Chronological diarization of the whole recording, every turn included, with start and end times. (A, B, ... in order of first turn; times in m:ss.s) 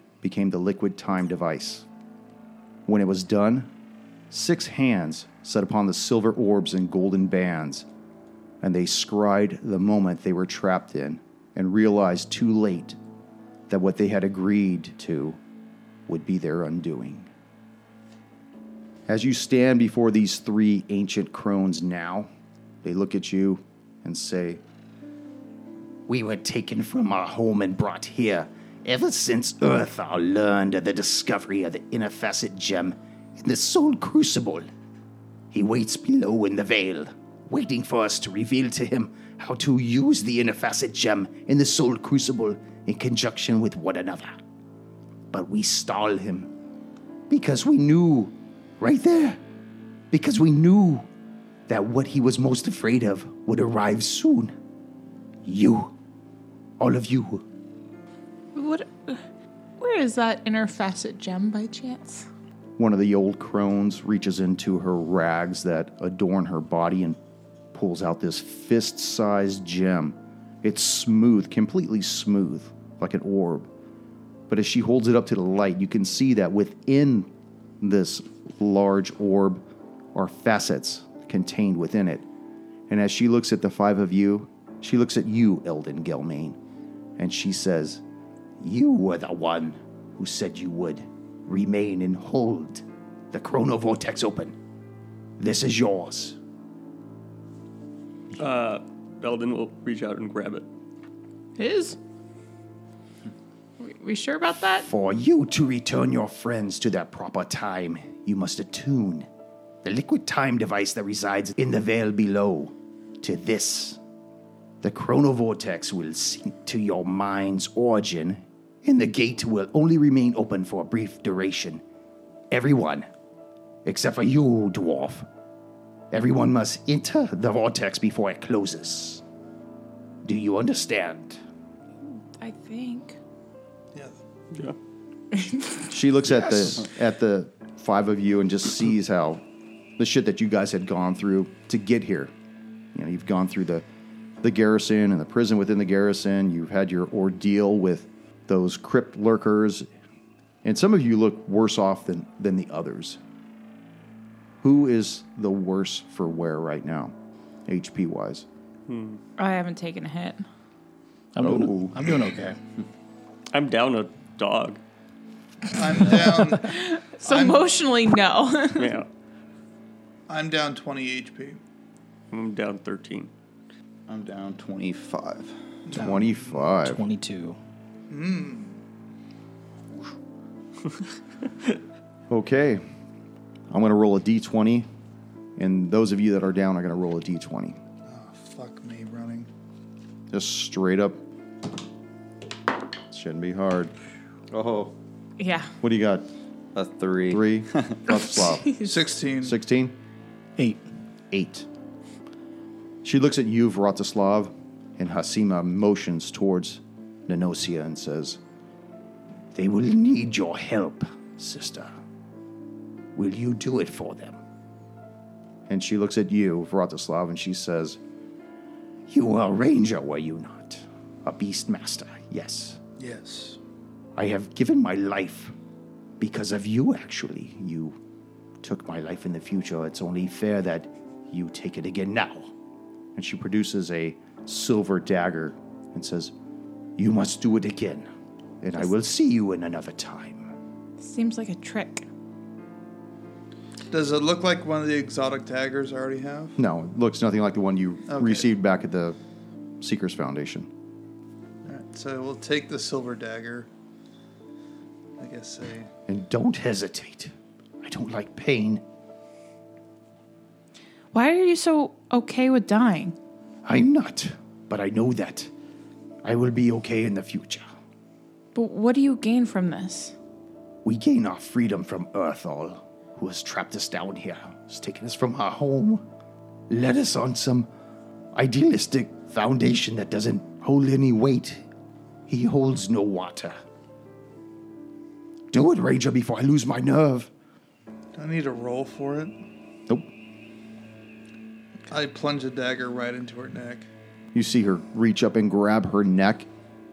0:00.2-0:01.9 A
0:02.9-0:03.7 A
0:04.3-0:07.9 A
0:08.6-0:13.0 A
0:13.7-0:15.4 A
0:16.1-0:17.3 A
0:19.1-0:22.3 A
0:22.8-0:24.6 A
0:26.1-0:34.7 A
0:35.5-0:44.4 A
0:45.3-0:46.5 A
0:47.3-0:49.4 A
0:50.1-0:51.1 A
0:51.7-0:54.5 A
0:55.4-0:55.9 A
0:56.8-0:57.4 A
0:58.6-0:59.2 B
0:59.8-1:02.2 B
1:02.8-1:07.2 A
1:07.7-1:13.7 A
1:14.5-1:17.3 A
1:17.8-1:19.6 A
1:20.2-1:22.3 A
1:22.9-1:26.6 A
1:27.2-1:28.0 A
1:28.6-1:34.6 A
1:35.4-1:36.4 A
1:38.4-1:40.6 C
1:41.6-1:42.0 B
1:43.8-1:44.9 B
1:44.8-1:49.3 A
1:49.8-1:54.0 A
1:54.8-2:01.8 A
2:02.5-2:03.1 A
2:03.8-2:05.3 A
2:06.1-2:09.2 A
2:10.2-2:11.4 A
2:12.4-2:13.2 B
2:15.4-2:15.7 B
2:15.9-2:19.4 A
2:20.0-2:22.3 A
2:23.0-2:23.8 A
2:24.4-2:29.9 A
2:30.6-2:33.2 A
2:34.6-2:37.1 A
2:37.7-2:38.5 A
2:38.9-2:39.2 C
2:39.4-2:40.4 B
2:41.4-2:42.6 D
2:41.4-2:42.0 A
2:43.5-2:44.8 C
2:45.7-2:47.6 E
2:46.6-2:49.0 B
2:48.8-2:49.1 C
2:50.3-2:51.6 E
2:52.3-2:53.3 C
2:54.1-2:55.6 F
2:55.9-2:56.3 E
2:56.0-2:57.0 A
2:56.0-2:56.3 D
2:56.8-2:57.6 D
2:58.1-2:58.8 E
3:02.3-3:02.8 A
3:03.7-3:04.9 A
3:05.6-3:07.8 A
3:08.1-3:09.5 E
3:10.3-3:11.2 A
3:13.1-3:13.9 A
3:14.5-3:15.0 F
3:15.4-3:15.7 B
3:15.8-3:16.3 A
3:16.7-3:18.1 F
3:17.3-3:18.8 A
3:18.1-3:18.9 B
3:18.8-3:19.6 E
3:19.4-3:20.0 A
3:20.6-3:20.8 D
3:21.3-3:21.7 A
3:23.0-3:28.4 A
3:29.5-3:32.0 A
3:33.2-3:34.4 A
3:35.7-3:38.0 A
3:39.1-3:42.8 A
3:43.0-3:43.6 E
3:44.2-3:45.5 A
3:46.2-3:48.0 A
3:48.6-3:52.5 A
3:53.2-3:56.3 A
3:57.0-3:58.1 A
3:58.6-4:00.5 A
4:01.0-4:02.0 B
4:03.9-4:06.6 E
4:06.6-4:09.2 A
4:08.1-4:08.5 E
4:09.8-4:10.7 A
4:11.6-4:13.7 E
4:15.2-4:15.9 E
4:16.1-4:18.8 A
4:21.1-4:23.2 B
4:23.6-4:25.5 A
4:26.2-4:27.6 A
4:28.6-4:30.2 B
4:30.8-4:36.0 A
4:36.7-4:37.7 A
4:38.3-4:41.6 A
4:42.3-4:43.6 A
4:45.5-4:47.3 A
4:48.2-4:49.4 E
4:51.9-4:53.9 E
4:54.3-4:56.5 A